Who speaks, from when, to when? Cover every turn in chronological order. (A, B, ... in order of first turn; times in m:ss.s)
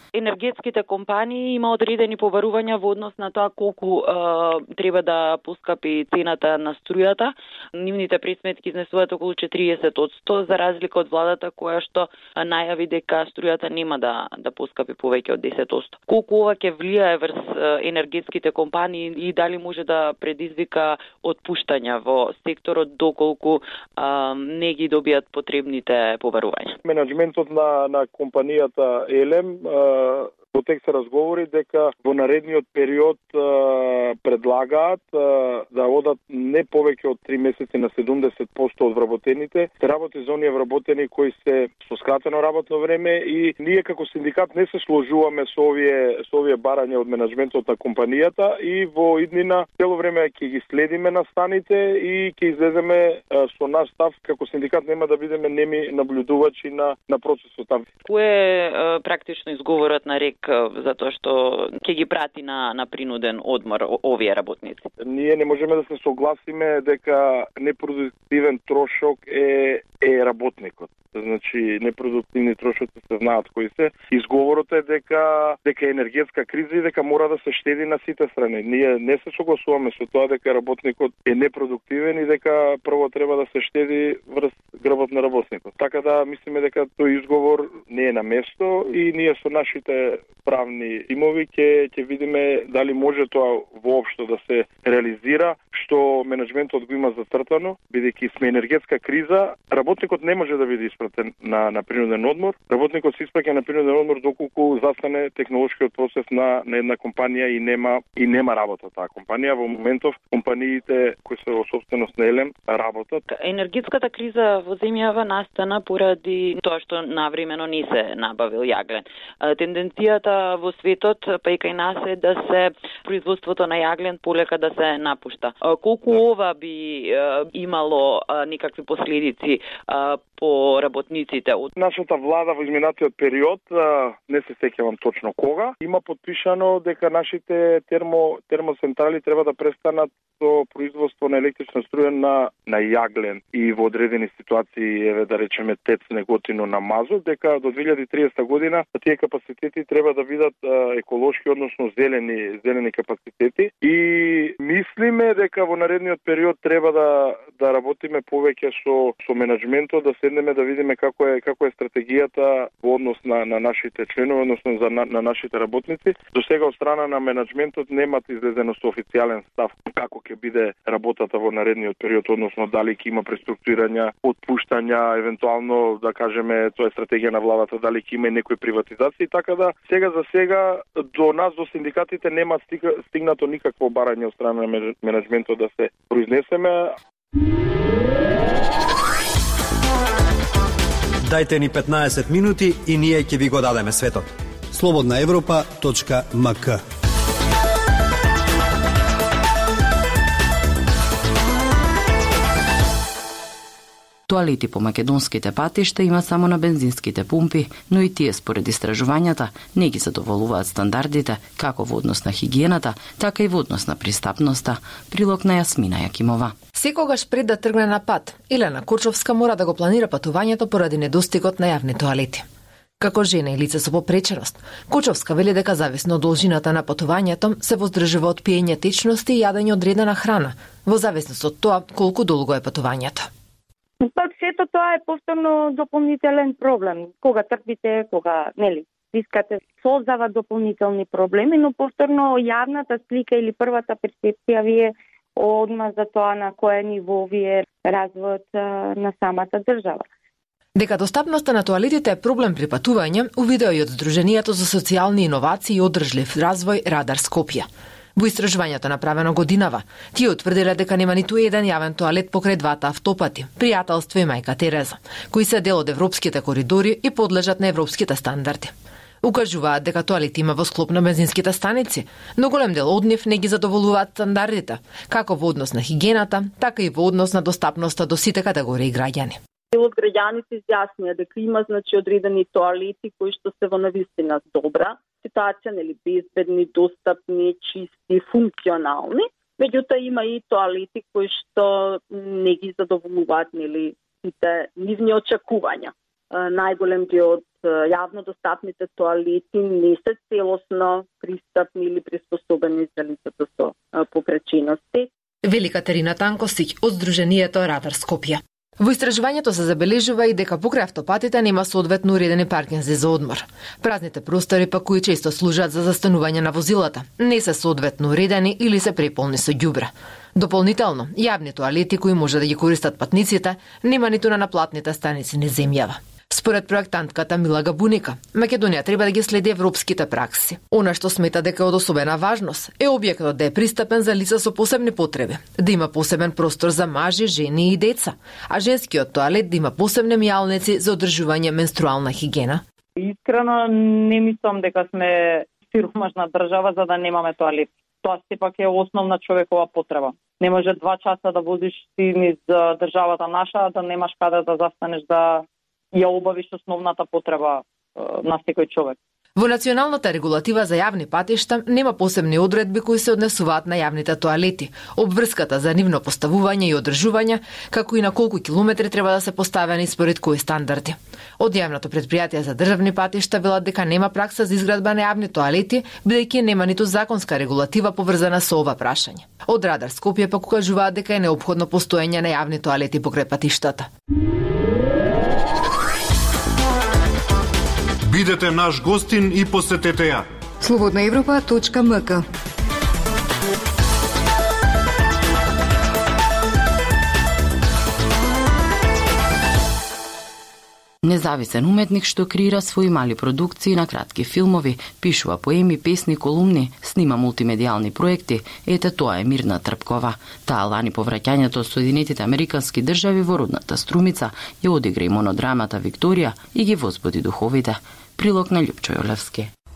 0:00.1-0:26.8 A
0:26.8-0:57.9 B
0:58.0-1:04.9 A
1:05.0-1:53.2 B
1:53.3-2:11.7 A
2:11.8-3:06.9 B
3:11.3-3:16.8 C
3:24.3-3:36.5 D
3:36.8-3:42.4 E
3:43.0-3:53.3 E
3:54.0-4:10.0 F
4:10.8-4:28.7 E
4:29.2-4:39.4 E
4:39.7-5:05.1 G
5:05.5-5:42.6 E
5:43.0-5:59.0 H
5:59.4-6:23.9 E
6:28.1-6:30.2 I
6:30.6-6:32.2 G
6:41.0-6:59.5 D